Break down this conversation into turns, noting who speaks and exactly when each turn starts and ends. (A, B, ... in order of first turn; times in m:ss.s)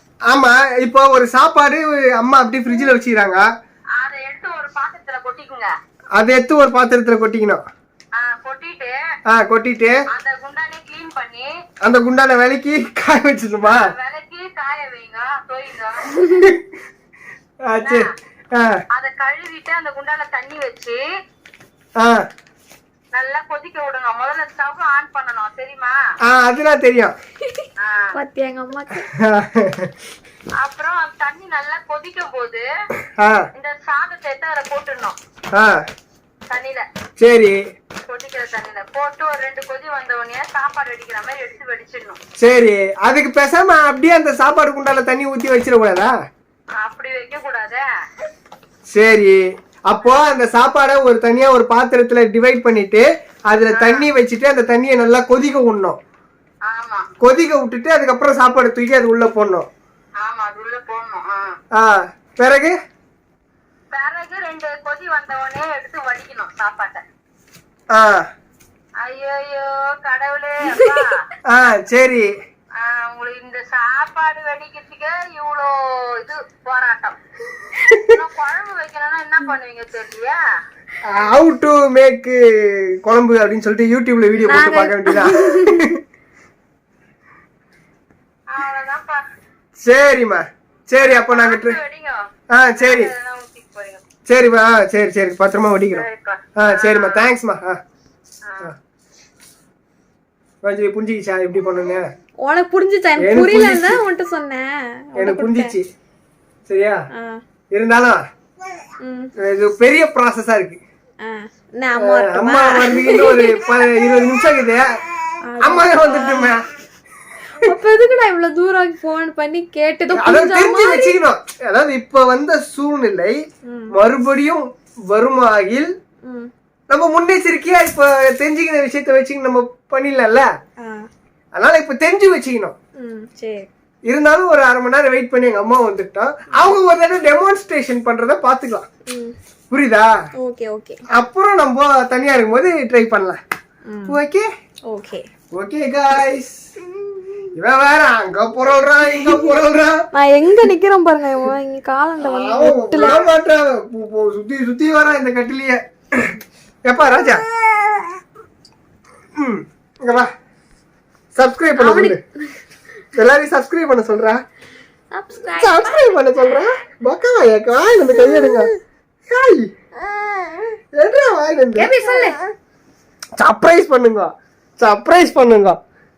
0:00.3-0:03.4 A
0:04.0-0:05.7 B
0:06.2-0:07.6 A
0:08.2-0:09.0 B
0:09.3-0:10.0 A
0:10.1-0:11.5 B
0:11.8-0:13.9 A
0:13.6-0:16.3 B
0:16.3-0:16.7 A
0:17.7-0:18.8 A
0:17.8-0:18.1 B
0:18.9-0:21.0 B
0:22.0-0:22.2 A
0:23.2-0:26.0 B
0:26.3-0:27.2 A
0:27.5-0:29.1 C
0:27.8-0:28.2 B
0:29.2-0:29.9 A
0:30.6-0:32.7 B
0:33.2-0:33.4 A
0:33.6-0:35.2 B
0:36.5-0:36.8 B
0:37.2-0:37.6 A
0:38.1-0:42.2 B
0:42.4-0:46.1 A
0:46.8-0:47.8 B
0:48.9-0:56.0 A
0:53.7-0:54.1 B
0:56.7-0:57.1 B
0:57.2-0:59.7 A
1:00.2-1:01.6 B
1:01.8-1:02.8 A
1:03.9-1:07.0 B
1:07.9-1:08.2 A
1:09.0-1:11.2 B
1:10.7-1:11.1 C
1:11.5-1:12.3 A
1:12.8-1:17.2 B
1:18.0-1:20.4 B
1:21.0-1:26.0 A
1:24.5-1:26.0 C
1:28.5-1:29.2 B
1:29.8-1:31.8 A
1:31.0-1:32.2 B
1:32.5-1:33.1 A
1:32.8-1:34.0 B
1:34.3-1:36.1 A
1:35.9-1:37.3 B
1:36.6-1:37.8 A
1:38.5-1:38.7 B
1:40.6-1:42.1 A
1:42.4-1:45.8 C
1:43.2-1:44.0 A
1:45.2-1:45.9 A
1:46.7-1:47.0 A
1:47.1-1:47.4 C
1:47.8-1:48.2 A
1:49.0-1:49.3 C
1:49.4-1:50.8 A
1:51.2-1:53.7 C
1:52.0-1:55.0 A
1:55.4-1:56.6 C
1:55.6-1:56.7 A
1:57.5-2:01.2 C
2:00.1-2:03.4 A
2:03.7-2:04.0 C
2:03.9-2:05.9 A
2:06.2-2:06.5 C
2:06.9-2:10.5 A
2:10.8-2:11.1 C
2:11.6-2:12.8 A
2:13.0-2:13.7 C
2:14.1-2:18.9 A
2:19.1-2:19.4 C
2:19.7-2:20.1 A
2:20.4-2:21.0 C
2:21.1-2:23.4 A
2:23.9-2:24.2 C
2:24.1-2:24.5 A
2:24.9-2:25.3 C
2:25.5-2:26.7 A
2:27.6-2:30.1 A
2:30.1-2:33.3 C
2:32.2-2:37.4 A
2:39.4-2:40.3 A
2:41.4-2:42.2 A
2:41.8-2:42.5 C
2:43.1-2:44.4 A
2:45.1-2:46.4 C
2:45.6-2:48.7 A
2:48.1-2:48.7 C
2:49.3-2:49.7 A
2:50.9-2:51.9 A
2:51.8-2:52.4 C
2:53.4-2:55.8 A